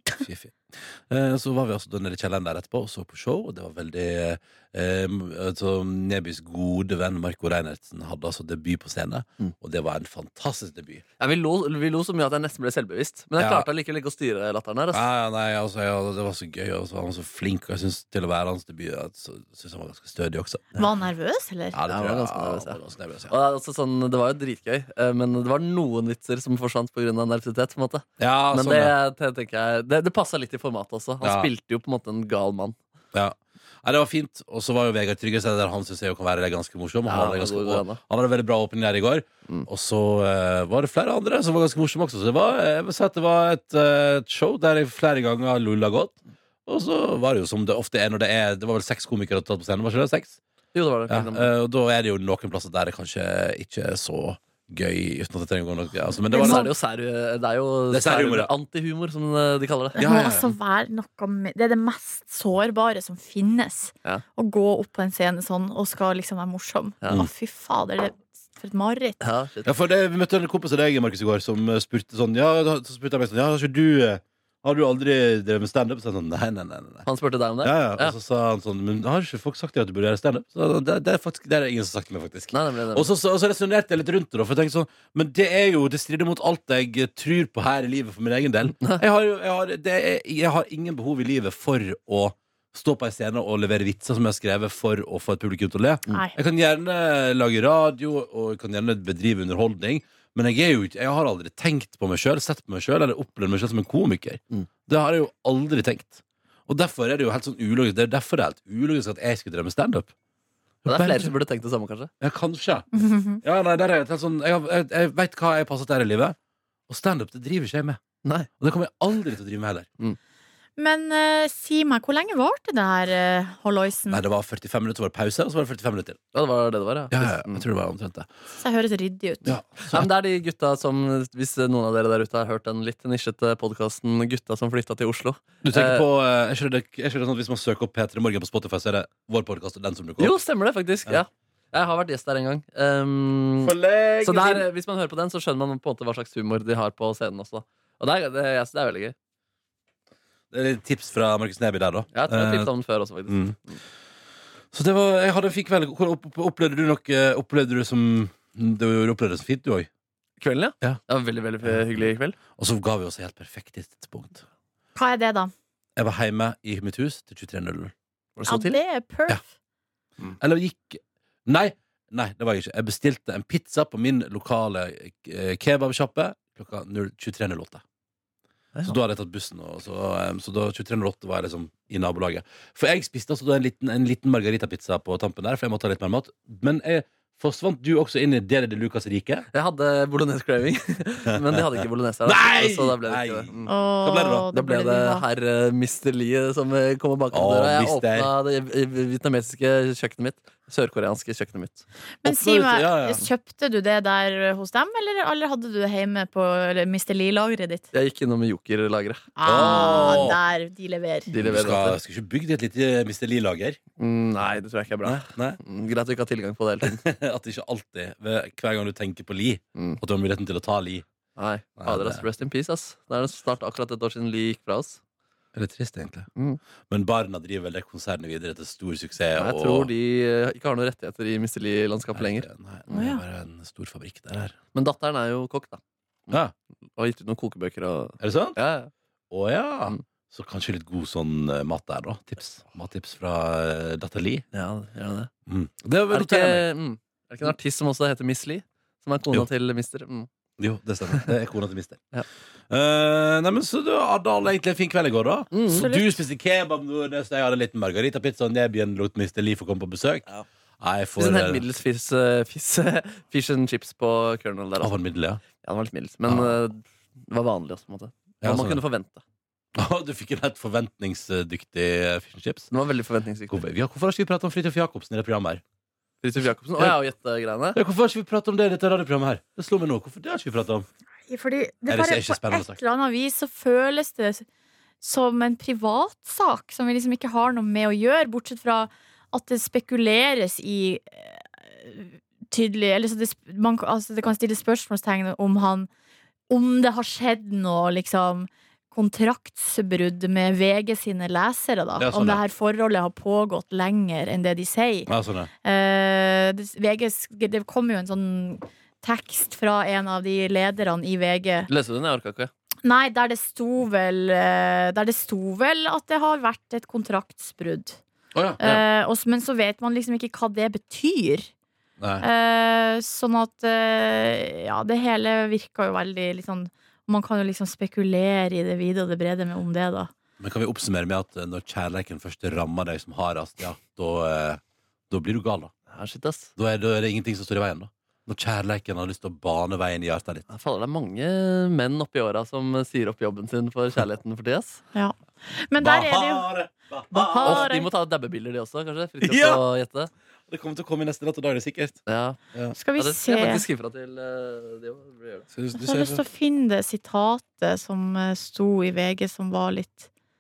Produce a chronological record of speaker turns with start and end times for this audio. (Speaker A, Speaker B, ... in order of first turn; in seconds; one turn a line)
Speaker A: 0.2-11.0
Speaker B: 11.2-15.0
Speaker A: 13.4-13.7
Speaker A: 14.9-20.8
Speaker C: 20.8-21.8
Speaker A: 21.7-23.3
Speaker B: 21.9-32.8
Speaker A: 28.2-28.9
Speaker A: 31.2-31.5
Speaker A: 33.1-50.4
Speaker B: 37.1-38.0
Speaker B: 50.7-51.5
Speaker A: 51.1-56.7
Speaker C: 56.3-56.7
Speaker B: 56.3-60.1
Speaker A: 57.9-58.5
Speaker C: 60.0-69.2
Speaker A: 60.0-60.5
Speaker B: 69.2-69.7
Speaker A: 69.6-77.0
Speaker B: 77.0-78.1
Speaker A: 77.6-110.1
Speaker B: 82.5-83.1
Speaker A: 110.8-111.3
Speaker B: 110.9-112.1
Speaker A: 112.2-112.9
Speaker C: 112.9-113.4
Speaker A: 113.4-116.4
Speaker A: 116.9-118.0
Speaker B: 118.2-118.5
Speaker A: 118.6-119.9
Speaker C: 120.8-124.2
Speaker A: 124.1-126.2
Speaker B: 126.3-127.6
Speaker A: 127.1-128.3
Speaker C: 128.6-129.5
Speaker A: 129.4-130.1
Speaker B: 129.9-136.1
Speaker A: 135.6-140.4
Speaker B: 140.2-149.1
Speaker A: 143.6-144.7
Speaker A: 150.5-152.7
Speaker B: 152.1-153.8
Speaker A: 153.3-153.6
Speaker A: 154.7-159.9
Speaker B: 160.4-162.4
Speaker A: 161.6-164.4
Speaker C: 164.9-165.5
Speaker A: 165.9-167.9
Speaker B: 168.4-168.8
Speaker C: 168.4-169.4
Speaker A: 170.4-177.8
Speaker A: 178.8-189.4
Speaker B: 189.5-193.7
Speaker A: 191.3-194.5
Speaker C: 193.7-195.2
Speaker B: 194.5-201.8
Speaker A: 197.3-198.3
Speaker C: 202.2-207.9
Speaker A: 202.2-203.2
Speaker B: 207.9-210.3
Speaker C: 209.4-211.3
Speaker A: 209.4-210.4
Speaker B: 211.3-212.0
Speaker A: 211.4-213.8
Speaker B: 214.0-217.0
Speaker A: 215.0-215.6
Speaker A: 216.8-221.0
Speaker B: 221.4-225.0
Speaker A: 221.8-222.2
Speaker A: 225.5-226.3
Speaker A: 226.9-229.9
Speaker B: 229.4-232.5
Speaker A: 232.1-234.6
Speaker C: 232.9-233.2
Speaker B: 234.7-236.4
Speaker B: 236.9-238.9
Speaker A: 238.2-238.6
Speaker A: 239.3-244.4
Speaker B: 244.5-245.3
Speaker A: 245.5-246.7
Speaker B: 246.1-250.3
Speaker A: 250.6-252.0
Speaker A: 252.7-260.2
Speaker B: 255.5-255.9
Speaker C: 255.7-256.2
Speaker A: 260.8-261.6
Speaker B: 261.2-264.9
Speaker A: 264.8-265.4
Speaker B: 265.6-269.2
Speaker A: 266.2-266.6
Speaker A: 268.4-268.8
Speaker A: 269.7-272.7
Speaker B: 272.7-273.6
Speaker A: 273.5-275.6
Speaker B: 276.2-277.8
Speaker A: 277.7-280.9
Speaker C: 281.3-284.4
Speaker A: 281.9-282.8
Speaker C: 285.0-295.9
Speaker C: 296.5-305.1
Speaker A: 302.0-302.4
Speaker A: 305.1-305.5
Speaker C: 305.6-311.7
Speaker B: 311.7-312.5
Speaker C: 312.8-318.0
Speaker A: 318.3-318.8
Speaker C: 318.6-321.5
Speaker A: 322.0-322.2
Speaker C: 322.2-330.1
Speaker A: 330.4-335.7
Speaker B: 335.9-336.5
Speaker A: 336.6-340.5
Speaker B: 340.5-344.8
Speaker C: 344.9-346.5
Speaker A: 345.8-347.7
Speaker C: 347.1-347.9
Speaker B: 347.4-350.1
Speaker A: 349.2-349.6
Speaker A: 350.5-352.0
Speaker B: 352.1-352.4
Speaker C: 352.7-353.6
Speaker B: 352.9-355.5
Speaker A: 355.5-356.2
Speaker C: 355.8-360.1